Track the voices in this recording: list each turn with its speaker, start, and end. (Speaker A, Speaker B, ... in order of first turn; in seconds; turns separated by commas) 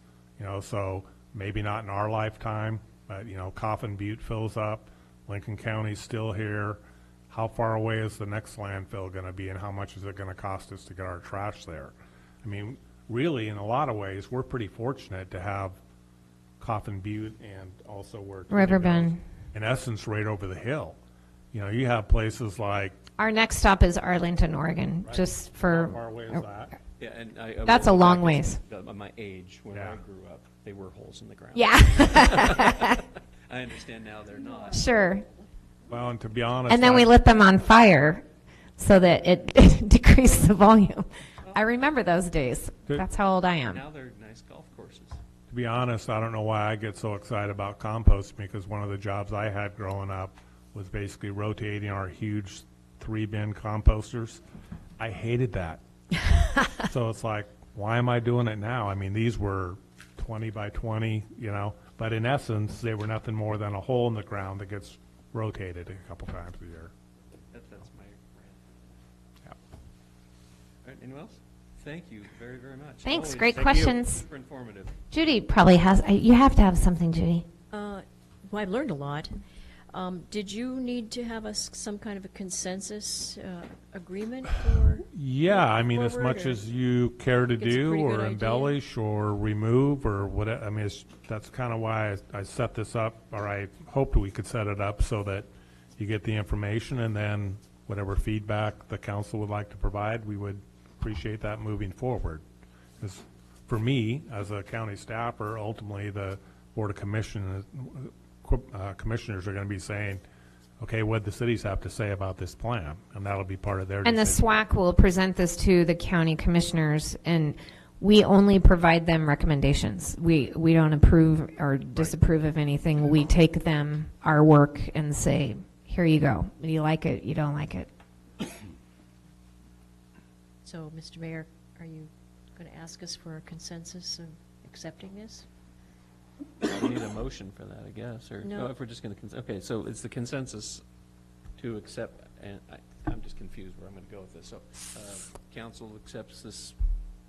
Speaker A: 0.4-15.8, Speaker A: 16.6-21.0, Speaker B: 18.5-19.2, Speaker A: 21.5-23.0, Speaker B: 23.2-26.0, Speaker A: 25.0-26.8, Speaker C: 27.0-34.9, Speaker B: 27.6-28.6, Speaker A: 29.7-30.0, Speaker B: 31.6-33.0, Speaker B: 34.7-35.2, Speaker A: 35.9-37.1, Speaker B: 36.7-38.2, Speaker B: 38.8-43.8, Speaker C: 43.7-45.2, Speaker A: 45.5-54.4, Speaker A: 55.0-55.8, Speaker A: 56.8-66.9, Speaker C: 67.5-68.9, Speaker C: 70.8-75.0, Speaker B: 73.0-74.2, Speaker B: 75.1-77.5, Speaker D: 77.7-79.4, Speaker D: 79.9-86.6, Speaker A: 85.1-102.4, Speaker D: 87.6-88.8, Speaker A: 103.0-110.2, Speaker A: 110.8-114.5, Speaker B: 114.0-127.9, Speaker D: 130.6-135.5, Speaker C: 136.6-140.8, Speaker D: 138.4-138.7, Speaker C: 141.6-146.8